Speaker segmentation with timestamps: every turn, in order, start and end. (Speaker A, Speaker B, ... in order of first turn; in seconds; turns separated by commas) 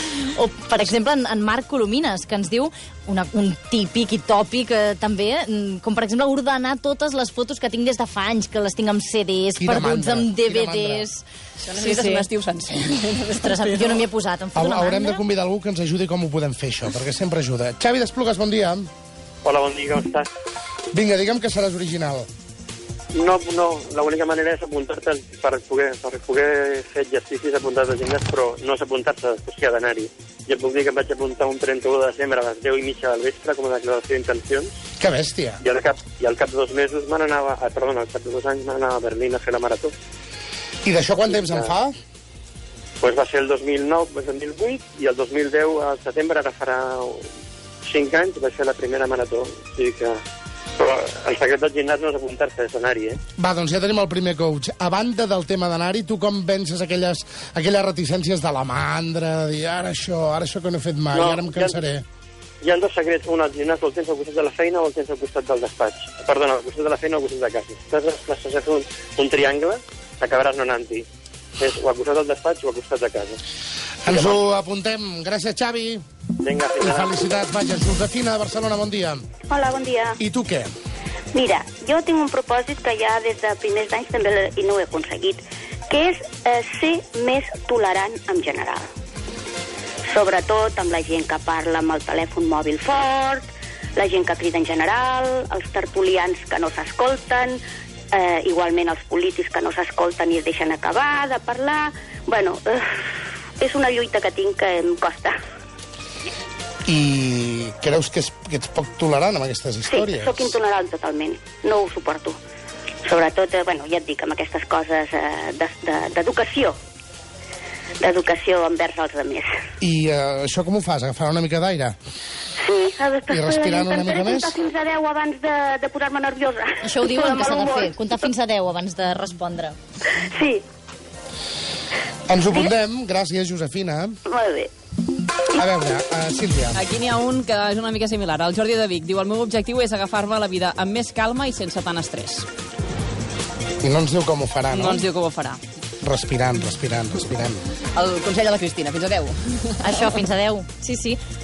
Speaker A: 0.3-11.2, Speaker B: 9.6-11.1, Speaker C: 11.6-14.1, Speaker A: 11.8-12.2, Speaker A: 13.4-15.2, Speaker B: 14.5-18.9, Speaker D: 19.4-20.3, Speaker B: 20.9-22.3, Speaker D: 23.1-34.7, Speaker B: 35.0-35.6, Speaker D: 35.6-39.9, Speaker B: 40.8-41.9, Speaker D: 41.3-41.7, Speaker D: 43.0-47.2, Speaker D: 47.9-50.2, Speaker D: 50.8-53.2, Speaker B: 53.4-62.0, Speaker D: 61.1-61.8, Speaker D: 62.6-71.0, Speaker D: 71.6-73.4, Speaker B: 74.0-76.0, Speaker D: 76.4-77.1, Speaker B: 76.8-79.2, Speaker E: 79.5-80.1, Speaker B: 80.2-80.7, Speaker E: 81.3-88.9, Speaker E: 90.1-97.6, Speaker E: 98.1-102.9, Speaker E: 103.6-105.4, Speaker B: 106.8-110.6, Speaker E: 109.9-112.4, Speaker E: 113.0-116.7, Speaker E: 118.0-119.5, Speaker B: 119.8-122.0, Speaker E: 122.6-128.2, Speaker B: 123.3-124.6, Speaker A: 126.8-129.8, Speaker E: 130.3-130.6, Speaker B: 132.3-134.2, Speaker E: 134.3-134.7, Speaker B: 135.6-136.8, Speaker C: 136.7-142.4, Speaker B: 143.8-145.0, Speaker C: 144.7-145.6, Speaker B: 146.0-147.6, Speaker C: 147.9-150.0, Speaker A: 149.8-151.2